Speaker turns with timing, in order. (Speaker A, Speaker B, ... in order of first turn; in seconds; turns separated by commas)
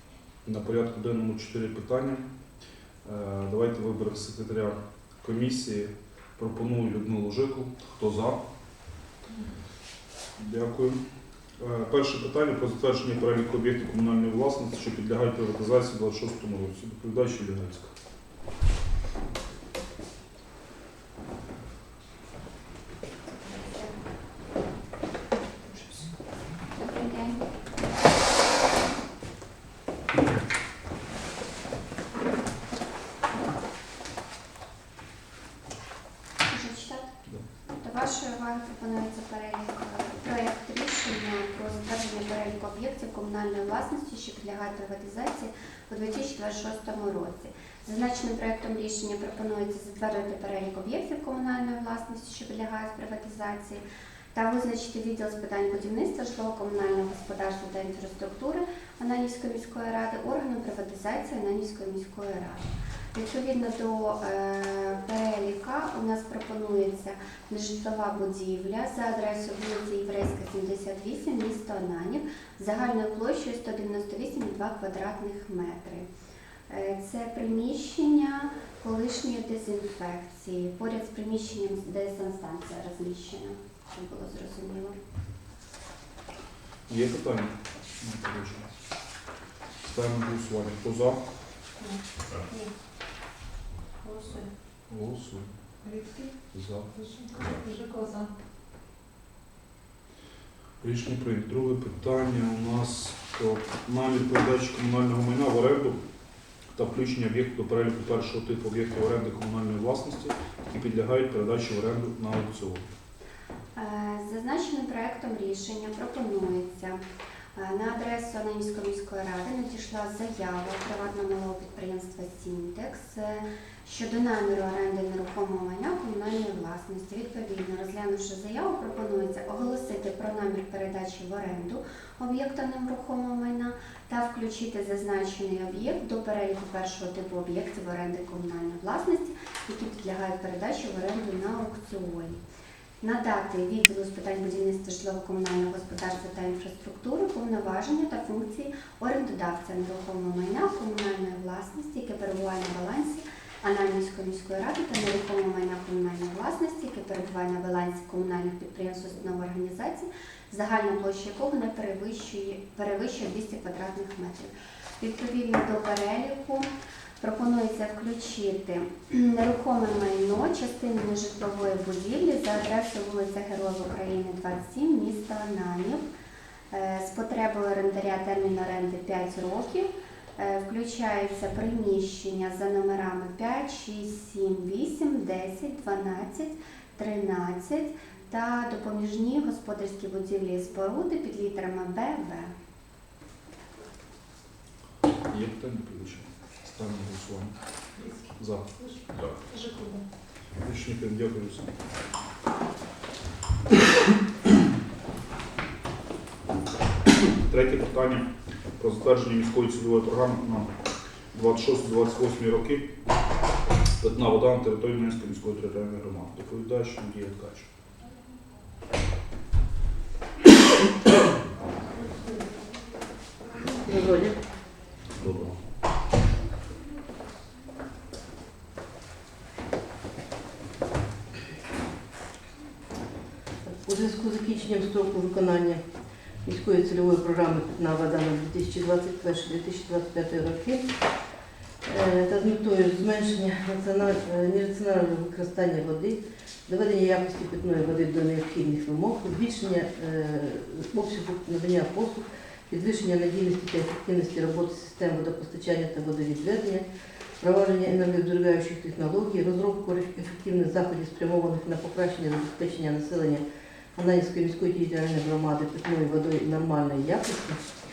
Speaker A: 0.4-2.2, Speaker A: 3.0-8.4, Speaker A: 10.3-11.0, Speaker A: 11.6-17.9, Speaker B: 26.8-27.4, Speaker B: 36.5-37.1, Speaker B: 37.8-76.1, Speaker B: 76.7-85.0, Speaker A: 86.9-88.7, Speaker A: 89.8-91.2, Speaker C: 94.0-94.5, Speaker A: 94.9-95.5, Speaker C: 95.9-96.2, Speaker A: 96.5-97.0, Speaker C: 97.0-98.3, Speaker A: 100.8-106.0, Speaker A: 106.7-112.8, Speaker B: 113.7-117.0, Speaker B: 117.5-142.4, Speaker B: 143.0-176.1, Speaker B: 176.7-192.5, Speaker A: 195.3-197.6, Speaker A: 198.3-199.4, Speaker C: 199.5-200.0, Speaker A: 200.6-201.7, Speaker A: 207.4-208.3, Speaker A: 208.8-210.7, Speaker A: 211.3-212.9, Speaker A: 214.0-217.7, Speaker D: 223.7-224.4, Speaker A: 225.2-225.6, Speaker D: 233.7-235.8, Speaker D: 236.4-240.9, Speaker D: 241.8-256.9, Speaker D: 257.4-263.4, Speaker D: 263.9-267.6